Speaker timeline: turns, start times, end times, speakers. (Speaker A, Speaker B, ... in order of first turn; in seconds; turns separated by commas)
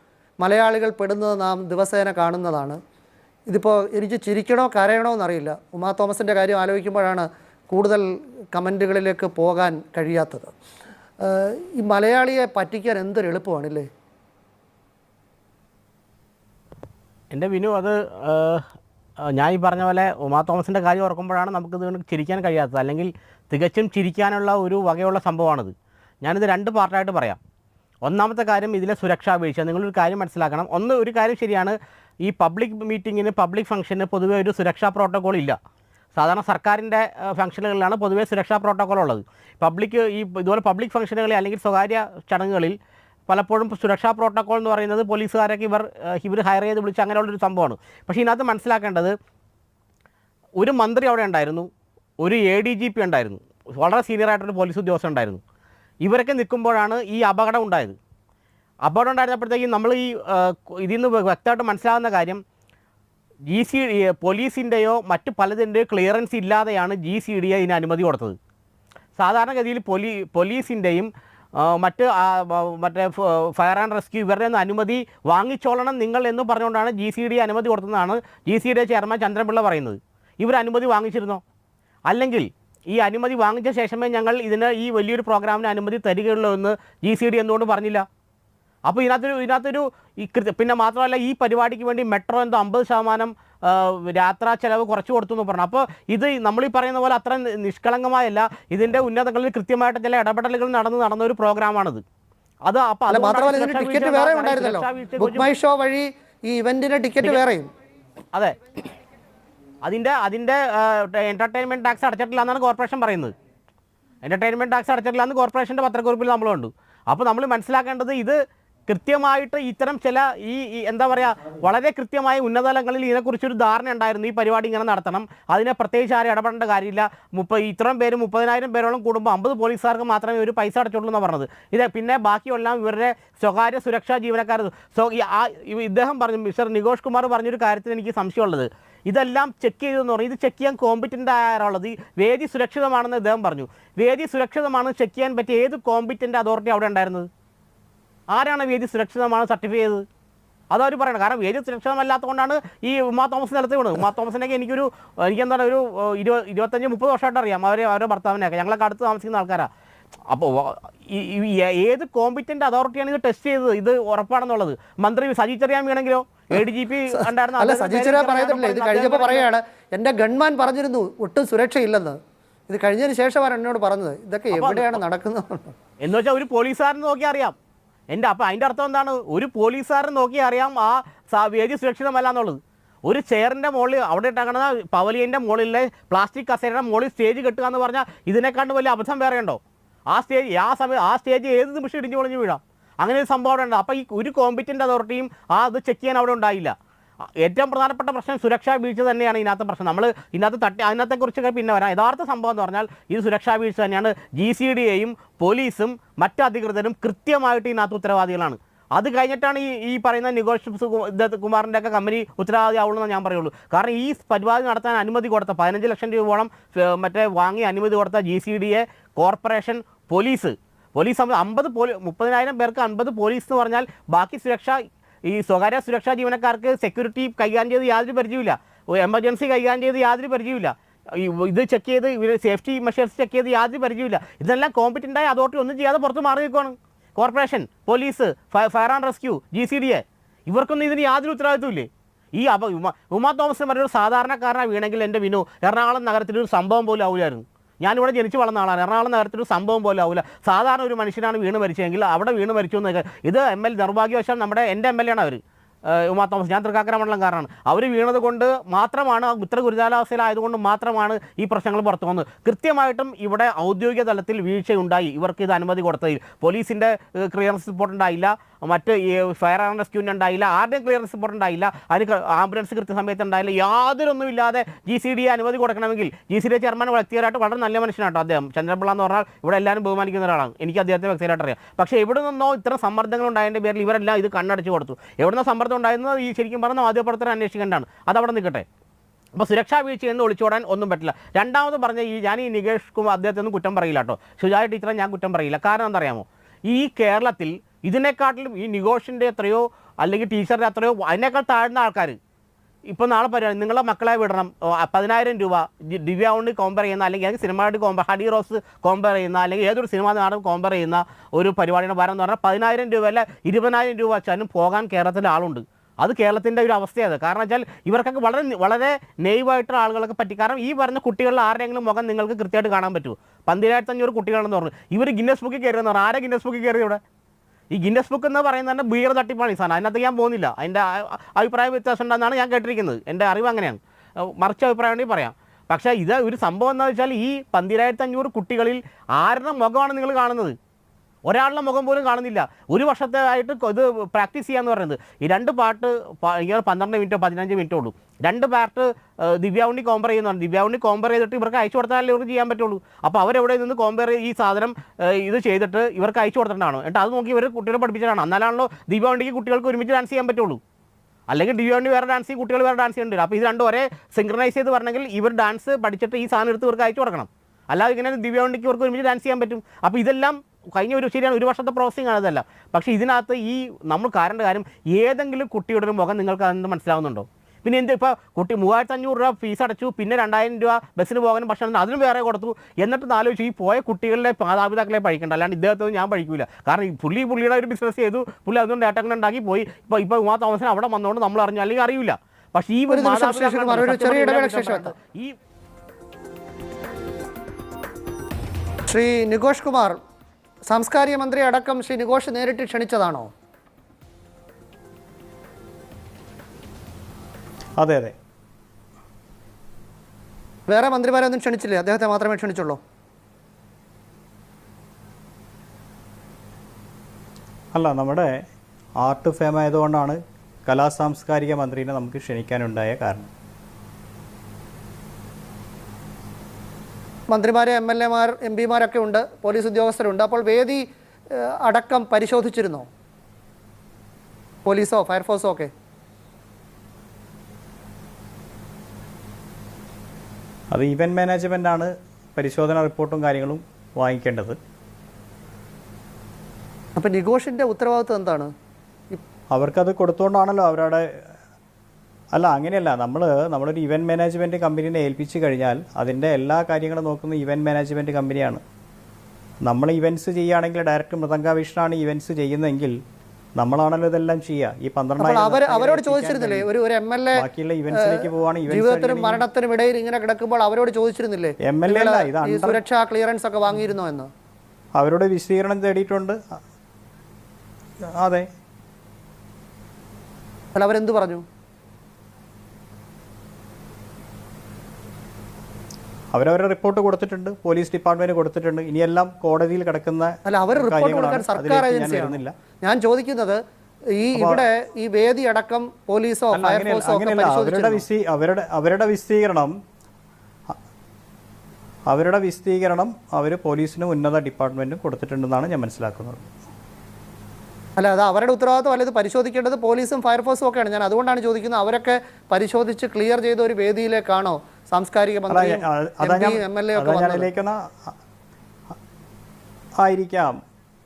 Speaker A: 0.4-2.8, Speaker A: 3.5-10.5, Speaker A: 11.2-13.9, Speaker B: 17.3-18.6, Speaker B: 19.2-27.4, Speaker B: 28.0-35.5, Speaker B: 36.1-42.8, Speaker B: 43.3-49.1, Speaker B: 50.6-51.7, Speaker B: 52.2-55.4, Speaker B: 56.0-58.0, Speaker B: 58.9-62.4, Speaker B: 63.5-68.3, Speaker B: 69.2-81.4, Speaker B: 82.1-88.0, Speaker B: 88.9-102.0, Speaker B: 102.7-105.5, Speaker A: 103.1-107.7, Speaker B: 109.8-113.3, Speaker B: 114.2-147.3, Speaker B: 148.3-150.0, Speaker B: 150.7-159.7, Speaker B: 160.3-169.5, Speaker A: 167.1-172.2, Speaker A: 172.7-175.7, Speaker B: 174.5-175.0, Speaker B: 176.0-177.5, Speaker B: 178.1-189.6, Speaker B: 190.1-196.7, Speaker B: 197.4-288.6, Speaker B: 289.3-302.1, Speaker B: 302.9-327.0, Speaker B: 327.7-340.5, Speaker B: 341.3-360.6, Speaker B: 361.3-395.3, Speaker A: 392.9-394.9, Speaker A: 398.9-400.0, Speaker A: 400.7-403.3, Speaker C: 407.8-408.1, Speaker A: 410.7-412.8, Speaker C: 417.7-418.3, Speaker C: 419.0-423.3, Speaker A: 427.3-430.8, Speaker A: 431.3-432.9, Speaker A: 434.6-435.7, Speaker C: 440.7-444.6, Speaker A: 447.0-448.5, Speaker C: 449.5-451.1, Speaker C: 452.3-458.6, Speaker C: 459.6-463.0, Speaker C: 463.6-466.7, Speaker A: 465.2-474.3, Speaker C: 467.4-469.4, Speaker C: 471.6-472.8, Speaker C: 474.9-476.6, Speaker C: 478.1-478.4, Speaker A: 480.7-481.4, Speaker C: 486.3-492.5, Speaker A: 490.4-493.6, Speaker A: 494.2-498.0, Speaker C: 494.3-494.6, Speaker C: 496.5-499.8, Speaker C: 502.1-506.4, Speaker A: 508.0-517.5, Speaker C: 515.5-517.8, Speaker C: 520.0-520.5